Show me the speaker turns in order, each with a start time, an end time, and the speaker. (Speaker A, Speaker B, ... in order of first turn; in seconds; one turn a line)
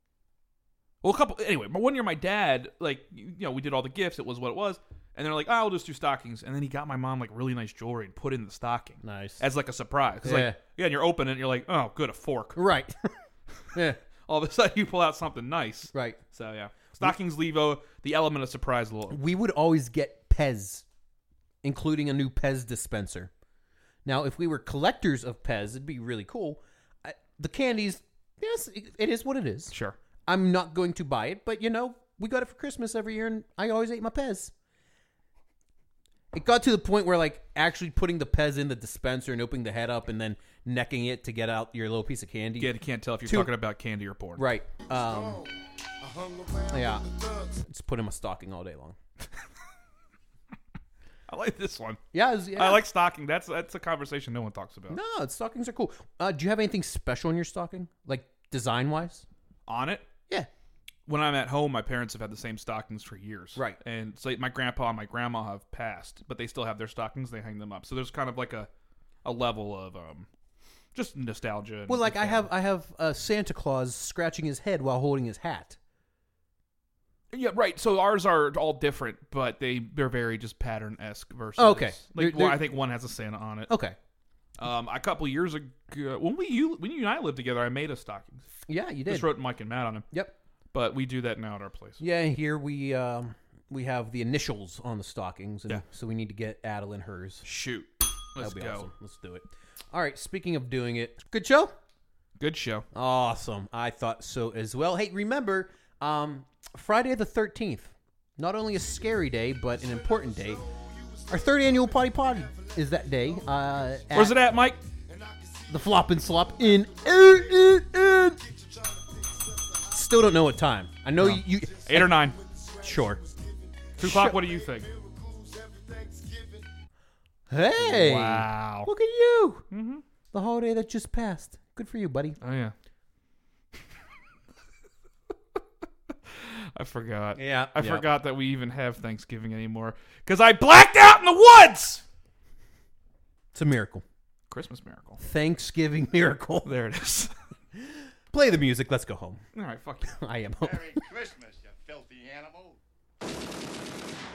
Speaker A: 1.0-12.6
Speaker B: 9.0-9.4
Speaker B: 10.2-10.6
Speaker B: 12.6-13.2
Speaker A: 13.7-19.2
Speaker B: 15.9-16.2
Speaker B: 19.1-20.9
Speaker B: 21.6-23.3
Speaker B: 24.1-29.7
Speaker A: 29.7-30.0
Speaker B: 30.3-34.5
Speaker B: 36.3-42.7
Speaker A: 42.6-44.5
Speaker B: 43.2-43.5
Speaker B: 44.4-45.4
Speaker C: 44.9-47.6
Speaker B: 46.7-47.1
Speaker B: 47.6-49.0
Speaker A: 51.3-52.0
Speaker B: 52.1-52.8
Speaker A: 52.5-55.0
Speaker B: 54.9-59.3
Speaker A: 59.7-60.1
Speaker A: 61.1-68.7
Speaker A: 69.2-70.3
Speaker A: 71.0-72.5
Speaker B: 71.9-75.8
Speaker A: 77.3-83.7
Speaker B: 81.6-82.6
Speaker B: 83.7-84.0
Speaker A: 84.6-88.5
Speaker B: 88.7-89.4
Speaker A: 89.1-90.0
Speaker A: 90.7-92.0
Speaker B: 92.0-97.5
Speaker A: 97.4-98.9
Speaker B: 98.4-101.7
Speaker A: 102.4-102.8
Speaker B: 102.9-110.6
Speaker C: 109.8-114.3
Speaker B: 111.3-114.4
Speaker A: 114.1-114.8
Speaker C: 114.9-120.3
Speaker B: 115.7-118.4
Speaker B: 119.9-122.1
Speaker A: 121.2-122.4
Speaker C: 121.6-126.7
Speaker B: 122.8-123.2
Speaker B: 124.0-124.5
Speaker A: 124.0-124.9
Speaker B: 127.5-129.7
Speaker A: 127.8-128.9
Speaker A: 129.7-130.0
Speaker B: 130.3-132.4
Speaker A: 132.4-132.7
Speaker A: 136.3-142.0
Speaker B: 137.4-138.1
Speaker B: 143.5-144.0
Speaker A: 144.5-145.2
Speaker B: 145.2-146.7
Speaker A: 146.6-147.3
Speaker B: 148.3-149.4
Speaker A: 149.5-150.2
Speaker B: 150.1-151.0
Speaker D: 150.6-152.8